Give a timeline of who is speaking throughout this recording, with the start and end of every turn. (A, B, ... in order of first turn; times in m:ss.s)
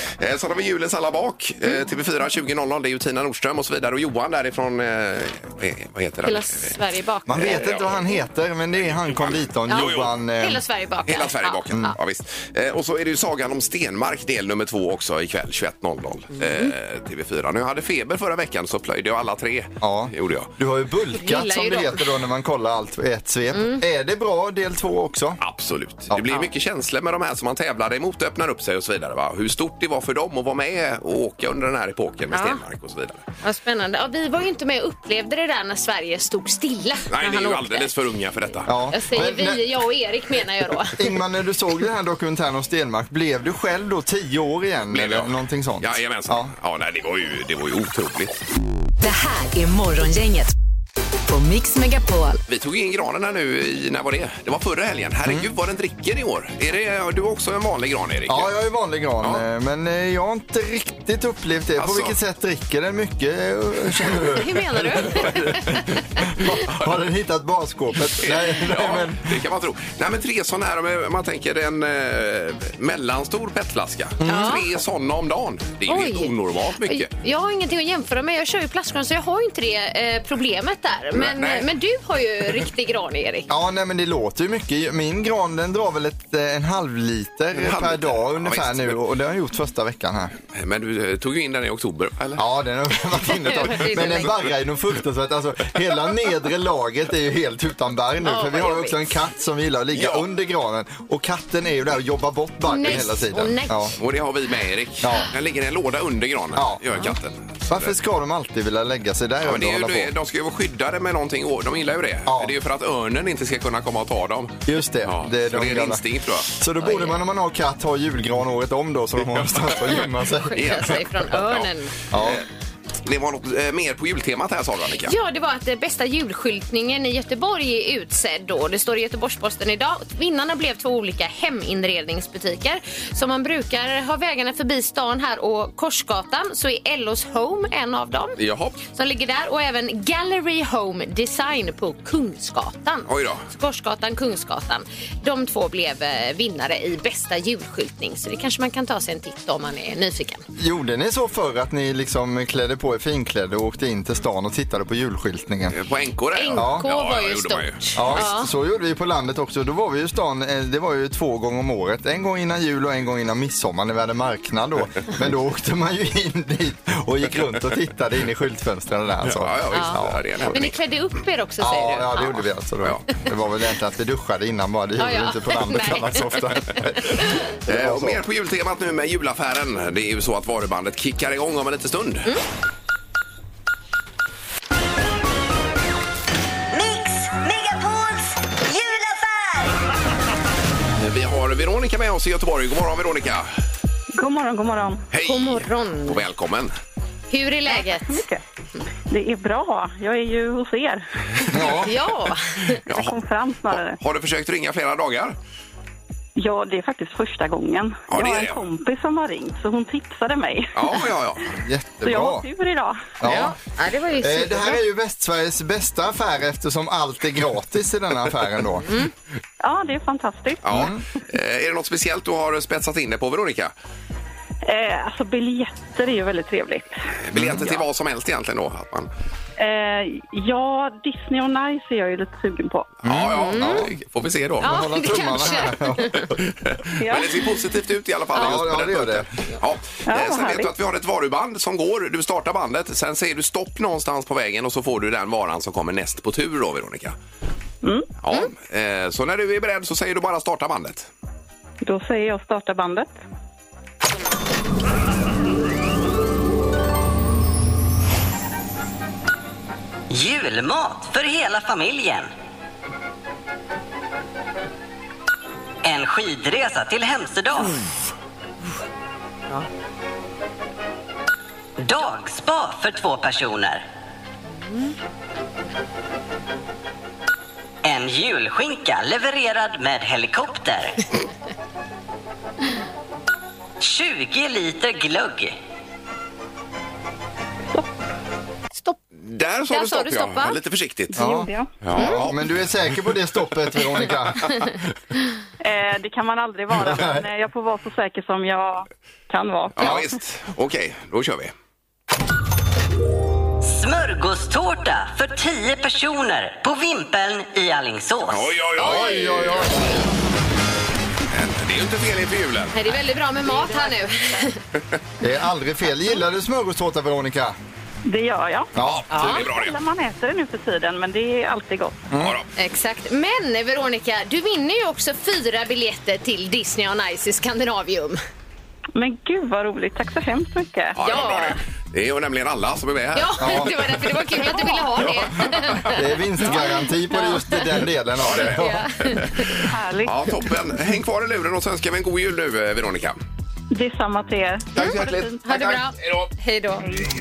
0:00.2-0:06.7 A
0:06.2-0:07.7 B
0:07.3-0:10.6 C
0:07.4-0:08.0 A
0:08.8-0:10.1 A
0:09.7-0:11.9 B
0:11.0-0:20.5 A
0:16.4-0:16.7 B
0:19.8-0:25.4 C
0:21.1-0:22.1 B
0:23.5-0:23.8 B
0:25.4-0:33.2 A
0:32.3-0:32.6 B
0:33.4-0:37.9 B
0:37.1-0:38.7 A
0:38.7-0:39.6 C
0:38.9-0:41.1 B
0:40.9-0:46.5 C
0:44.9-0:48.4 A
0:49.0-0:50.5 D
0:51.3-0:52.4 D
0:52.5-0:58.5 A
0:58.3-1:09.4 C
1:01.8-1:02.2 A
1:04.3-1:06.0 B
1:06.5-1:06.9 A
1:08.2-1:17.1 A
1:14.2-1:14.5 C
1:14.2-1:14.6 B
1:15.9-1:16.3 B
1:16.8-1:23.5 B
1:21.1-1:21.7 A
1:23.5-1:30.3 C
1:27.5-1:29.0 A
1:30.5-1:32.4 A
1:32.4-1:43.9 C
1:33.4-1:34.3 B
1:38.2-1:39.1 B
1:39.9-1:40.2 A
1:42.6-1:44.0 B
1:44.0-1:47.9 A
1:45.0-1:45.3 C
1:46.5-1:46.8 C
1:47.7-1:50.1 C
1:49.4-1:56.5 A
1:52.3-1:52.5 C
1:54.6-2:00.9 C
1:56.8-1:57.1 B
1:59.3-2:00.0 A
2:00.4-2:01.9 B
2:00.5-2:02.4 A
2:02.1-2:02.4 C
2:03.0-2:05.1 A
2:05.0-2:30.4 B
2:18.4-2:18.8 A
2:23.1-2:23.4 A
2:30.6-2:35.8 C
2:35.7-2:38.2 A
2:36.3-2:38.5 B
2:36.5-2:36.8 C
2:38.0-2:50.5 C
2:49.2-2:50.8 A
2:49.7-2:50.0 B
2:50.5-2:52.4 B
2:51.6-2:58.2 C
2:55.0-2:56.8 B
2:57.7-3:02.3 A
3:06.7-3:09.8 E
3:11.0-3:13.5 A
3:14.1-3:15.0 F
3:15.1-3:16.7 A
3:15.2-3:16.2 B
3:17.3-3:18.2 B
3:17.6-3:18.4 F
3:19.1-3:21.0 F
3:21.5-3:21.9 C
3:21.8-3:22.8 B
3:22.8-3:25.4 A
3:22.9-3:24.0 F
3:26.4-3:31.0 F
3:28.1-3:28.6 A
3:30.8-3:31.5 A
3:31.6-3:32.4 C
3:32.0-3:33.1 F
3:33.2-3:33.5 C
3:33.2-3:34.8 B
3:34.2-3:38.9 C
3:39.6-3:40.6 F
3:40.6-3:43.7 A
3:40.7-3:41.0 C
3:44.6-3:47.8 F
3:47.2-3:49.1 A
3:47.3-3:47.6 C
3:49.6-3:52.9 F
3:53.0-3:54.7 A
3:53.0-3:53.9 C
3:53.3-3:53.8 B
3:54.6-3:56.3 C
3:54.6-3:56.2 B
3:56.2-4:07.1 A
3:57.0-3:57.4 F
3:58.3-3:59.3 C
4:00.1-4:00.7 F
4:07.8-4:08.1 F
4:08.2-4:11.1 A
4:11.8-4:13.2 F
4:20.1-4:22.3 E
4:25.8-4:27.8 E
4:31.8-4:33.8 E
4:37.8-4:41.0 E
4:43.8-4:45.6 E
4:49.2-4:51.2 A
4:49.7-4:50.6 B
4:51.1-4:51.8 F
4:51.2-4:54.6 C
4:51.8-4:52.6 A
4:55.6-5:00.1 F
4:56.8-4:57.2 C
4:59.7-5:01.5 A
5:03.6-5:08.5 E
5:08.3-5:09.7 A
5:08.8-5:09.8 C
5:11.3-5:12.9 A
5:12.7-5:14.6 B
5:15.2-5:17.5 C
5:18.1-5:22.0 F
5:18.8-5:19.1 C
5:18.8-5:19.8 A
5:19.1-5:19.4 B
5:22.2-5:22.5 A
5:22.6-5:28.2 B
5:29.0-5:31.0 F
5:31.0-5:33.7 A
5:31.0-5:31.6 B
5:33.1-5:37.7 B
5:33.4-5:33.7 C
5:35.1-5:36.0 A
5:35.9-5:38.9 C
5:38.2-5:39.5 A
5:38.6-5:39.5 B
5:39.6-5:40.5 F
5:40.0-5:43.2 A
5:43.7-5:45.4 F
5:44.7-5:46.3 A
5:44.8-5:46.8 B